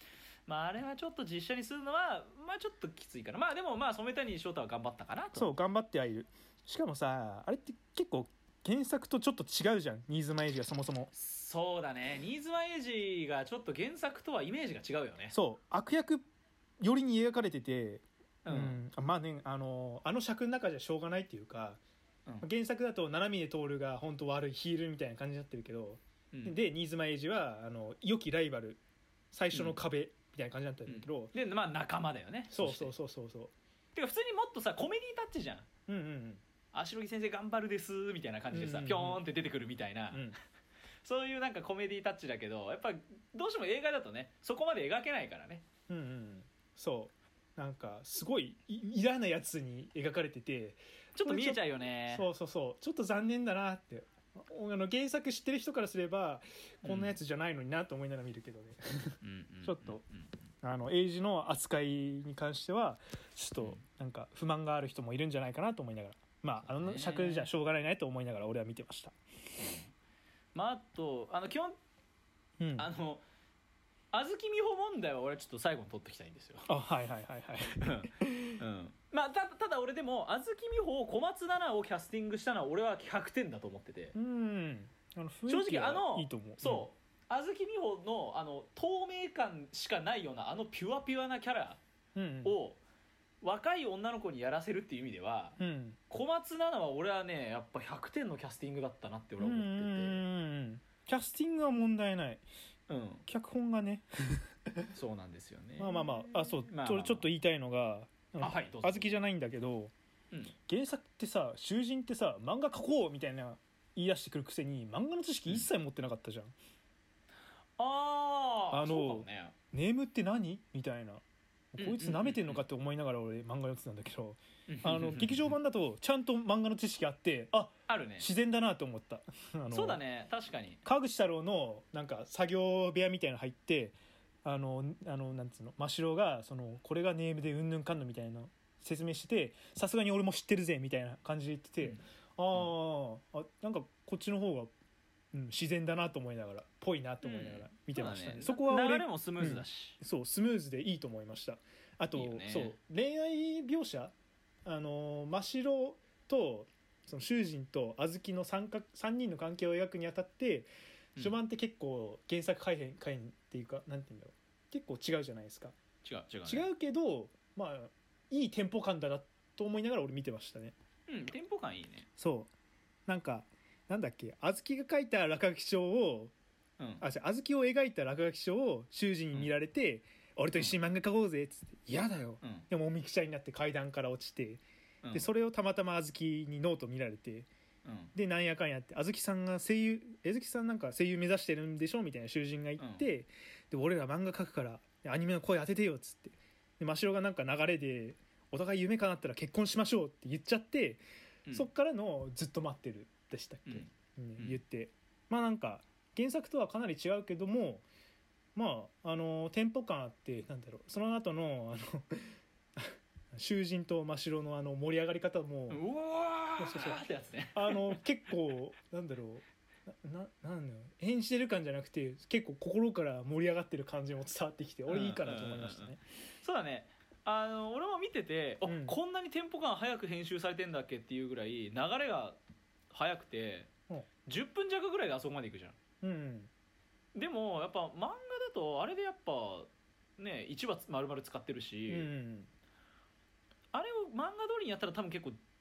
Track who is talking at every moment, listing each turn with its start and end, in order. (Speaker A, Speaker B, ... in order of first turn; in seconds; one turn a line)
Speaker A: 0.5-5.5
Speaker B: 5.3-11.1
Speaker A: 11.1-15.4
Speaker B: 15.3-16.2
Speaker B: 16.8-21.8
Speaker A: 18.4-18.8
Speaker B: 22.4-28.8
Speaker A: 26.3-26.6
Speaker B: 29.3-31.3
Speaker A: 29.5-29.8
Speaker A: 30.9-32.9
Speaker B: 32.5-33.5
Speaker A: 33.9-35.7
Speaker B: 35.9-36.4
Speaker A: 36.7-40.3
Speaker B: 38.5-39.2
Speaker B: 40.1-40.4
Speaker A: 41.0-45.6
Speaker B: 45.9-60.0
Speaker A: 51.1-52.3
Speaker A: 56.8-57.2
Speaker A: 59.2-60.3
Speaker B: 60.6-69.2
Speaker A: 66.7-67.5
Speaker A: 69.6-69.9
Speaker A: 70.5-71.8
Speaker B: 72.6-72.9
Speaker A: 72.8-73.2
Speaker A: 74.1-76.7
Speaker B: 76.7-78.6
Speaker A: 77.8-84.2
Speaker B: 84.2-86.9
Speaker A: 85.5-91.8
Speaker B: 92.2-92.6
Speaker A: 92.4-92.8
Speaker A: 93.4-95.6
Speaker B: 95.6-96.0
Speaker A: 96.1-100.2
Speaker B: 99.4-102.4
Speaker A: 102.9-103.2
Speaker B: 103.3-104.9
Speaker A: 104.9-107.3
Speaker B: 105.8-109.9
Speaker A: 108.4-109.2
Speaker B: 110.7-116.5
Speaker A: 117.8-119.5
Speaker B: 118.7-130.0
Speaker A: 121.8-122.6
Speaker A: 124.7-125.5
Speaker A: 127.9-128.3
Speaker A: 129.7-130.8
Speaker B: 130.8-144.7
Speaker B: 145.3-154.1
Speaker A: 147.2-150.0
Speaker A: 152.1-152.7
Speaker B: 154.7-165.8
Speaker A: 166.0-166.7
Speaker B: 166.4-170.7
Speaker A: 171.1-172.1
Speaker B: 172.2-172.5
Speaker B: 173.1-176.3
Speaker A: 176.8-177.0
Speaker B: 177.0-187.5
Speaker A: 182.4-182.7
Speaker A: 185.0-185.3
Speaker A: 187.8-188.1
Speaker B: 188.2-201.0
Speaker A: 192.8-193.1
Speaker B: 201.5-207.8
Speaker A: 203.7-204.6
Speaker B: 208.6-215.8
Speaker A: 215.7-218.0
Speaker B: 216.6-217.0
Speaker B: 217.5-226.0
Speaker A: 224.9-232.4
Speaker B: 228.7-229.0
Speaker A: 232.9-233.7
Speaker A: 234.2-235.8
Speaker B: 236.0-236.5
Speaker A: 237.2-242.1
Speaker B: 241.9-242.5
Speaker A: 243.7-245.4